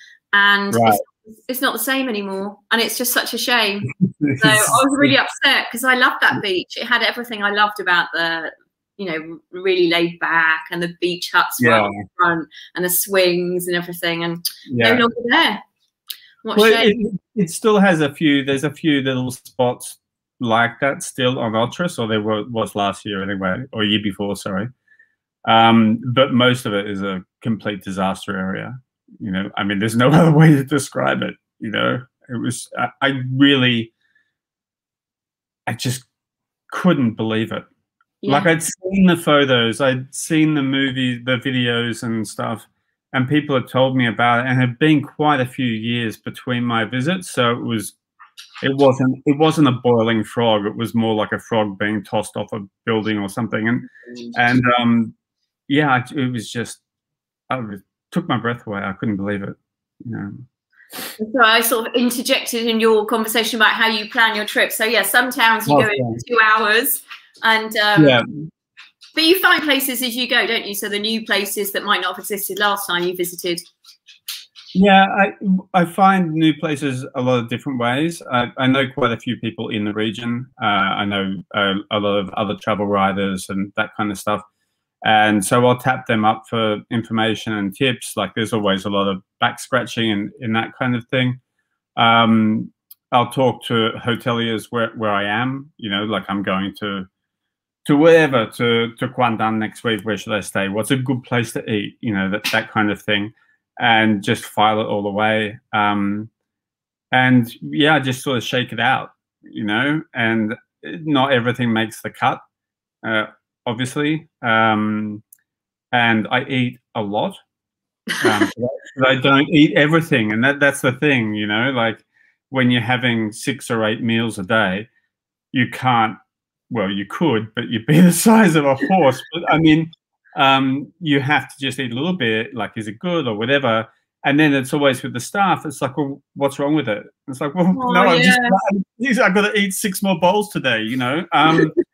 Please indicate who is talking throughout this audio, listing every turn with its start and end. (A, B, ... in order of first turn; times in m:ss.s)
0:00.3-0:15.6 A
0:00.7-0:01.0 B
0:04.1-0:05.1 B
0:11.6-0:12.0 B
0:14.7-0:15.0 B
0:16.4-0:16.9 A
0:16.6-0:24.7 B
0:25.4-0:33.9 B
0:35.7-0:36.1 B
0:36.7-0:37.7 B
0:38.2-0:38.5 A
0:38.3-0:48.0 B
0:48.6-0:55.1 B
0:55.7-0:56.8 B
0:57.5-1:00.4 B
1:01.2-1:08.2 A
1:05.6-1:06.2 B
1:08.0-1:08.5 B
1:09.2-1:13.6 A
1:14.8-1:24.4 B
1:25.0-1:31.4 B
1:32.0-1:37.1 B
1:37.8-1:46.3 B
1:47.1-1:52.4 B
1:53.0-1:55.2 B
1:55.9-1:57.4 B
1:58.2-1:58.5 A
1:58.2-2:04.9 B
2:05.5-2:06.2 B
2:06.7-2:21.8 B
2:17.8-2:18.6 A